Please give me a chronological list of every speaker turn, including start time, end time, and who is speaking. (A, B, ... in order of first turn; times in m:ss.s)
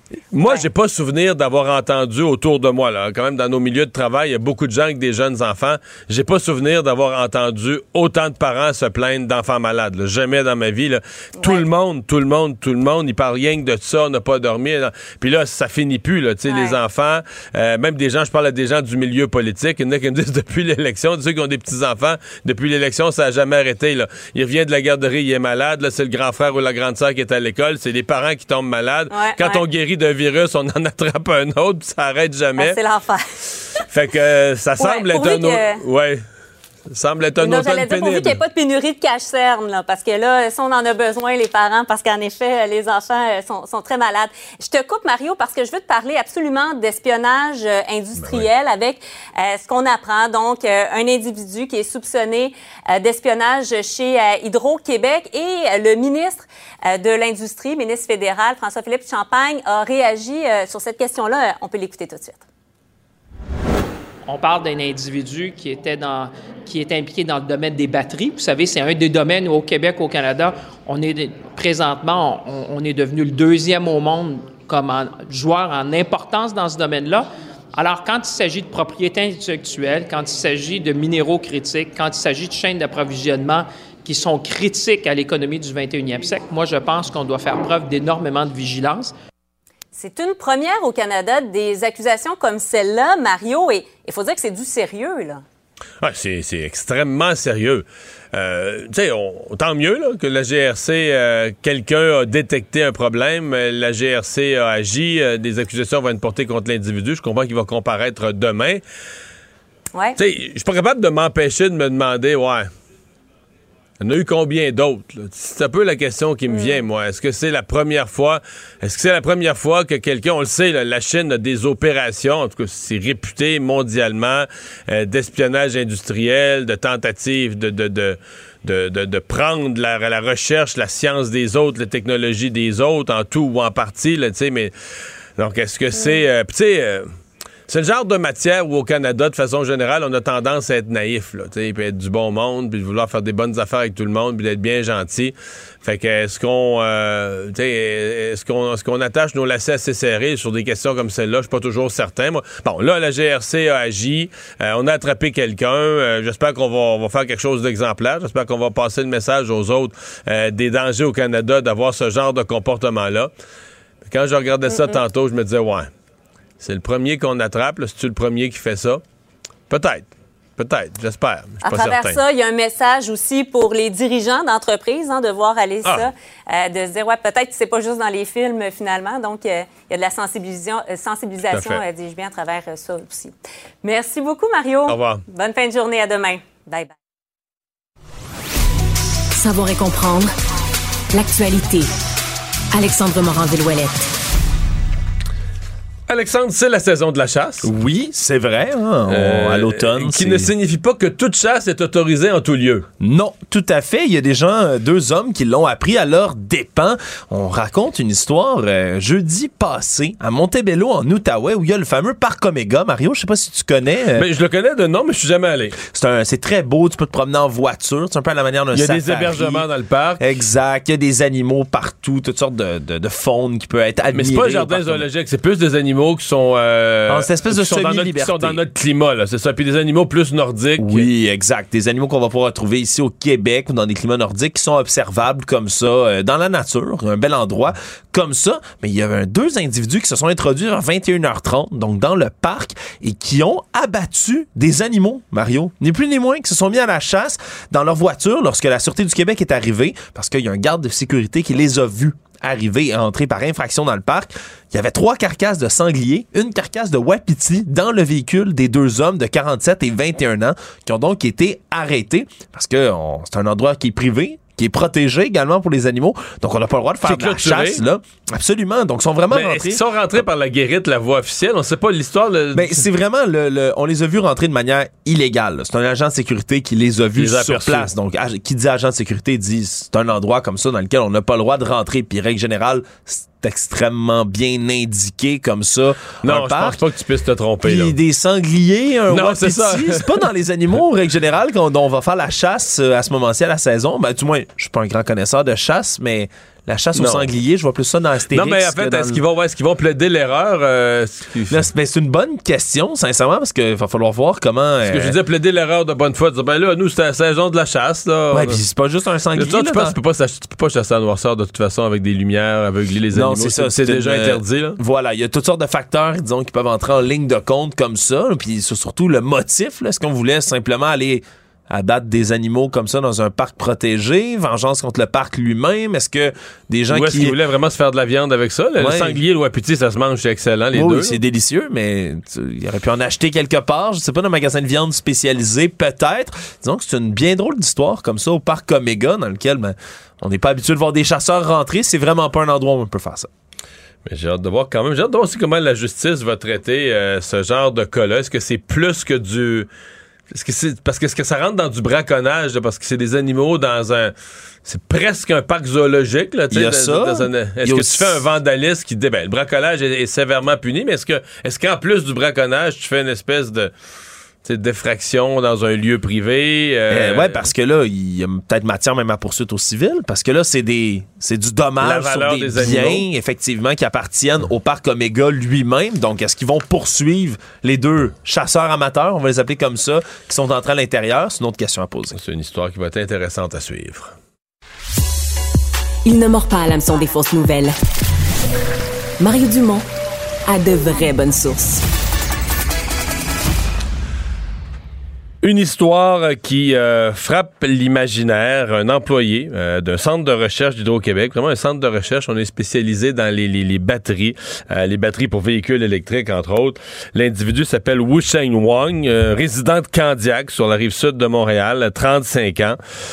0:00.3-0:32.8 A
0:11.4-0:11.6 B
0:16.4-0:16.8 B
0:29.1-0:29.6 B
0:32.6-0:33.8 B
0:33.9-0:36.2 A
0:34.8-0:35.8 B
0:36.9-0:38.4 A
0:37.4-1:02.4 B
0:48.1-0:48.5 A
1:04.2-1:29.1 C
1:29.9-1:35.4 B
1:36.0-1:48.8 A
1:50.2-1:52.7 A
1:54.0-2:14.7 A
1:56.5-1:56.8 B
2:15.4-2:17.1 A
2:15.9-2:16.2 B
2:17.7-2:43.3 A
2:44.0-2:45.9 A
2:44.7-2:45.0 B
2:46.6-2:49.0 A
2:49.7-2:52.2 A
2:51.6-3:06.9 B
2:55.8-2:56.1 A
3:01.5-3:01.8 A
3:04.9-3:05.2 A
3:09.3-3:10.3 D
3:11.1-3:11.9 D
3:12.7-3:14.1 D
3:16.1-3:17.7 A
3:17.6-3:20.5 E
3:19.1-3:22.9 A
3:23.0-3:34.3 E
3:34.1-3:35.8 A
3:35.8-3:39.6 E
3:38.7-3:40.2 A
3:40.2-3:45.0 E
3:44.1-3:51.1 A
3:47.1-3:48.6 E
3:50.8-4:29.8 E
4:27.0-4:27.8 A
4:29.3-4:32.8 A
4:32.5-4:46.8 E
4:37.1-4:37.9 A
4:46.2-4:47.9 A
4:47.6-4:59.2 E
4:49.1-4:50.2 A
4:56.9-4:57.3 A
4:58.3-5:01.6 A
5:01.5-5:05.1 E
5:04.8-5:08.6 A
5:08.3-5:10.0 E
5:09.3-5:14.8 A
5:13.1-5:27.4 E
5:26.9-5:31.2 A
5:28.8-5:29.2 E
5:30.7-5:43.3 E
5:44.0-5:49.7 A
5:50.3-5:54.1 A
5:54.6-6:03.7 A
5:56.5-5:58.2 E
6:04.4-6:07.5 A
6:06.9-6:22.2 E
6:11.8-6:13.0 A
6:22.1-6:24.1 A
6:26.0-6:27.7 D
6:29.2-6:29.9 D
6:30.4-6:31.8 D
6:35.4-6:52.8 A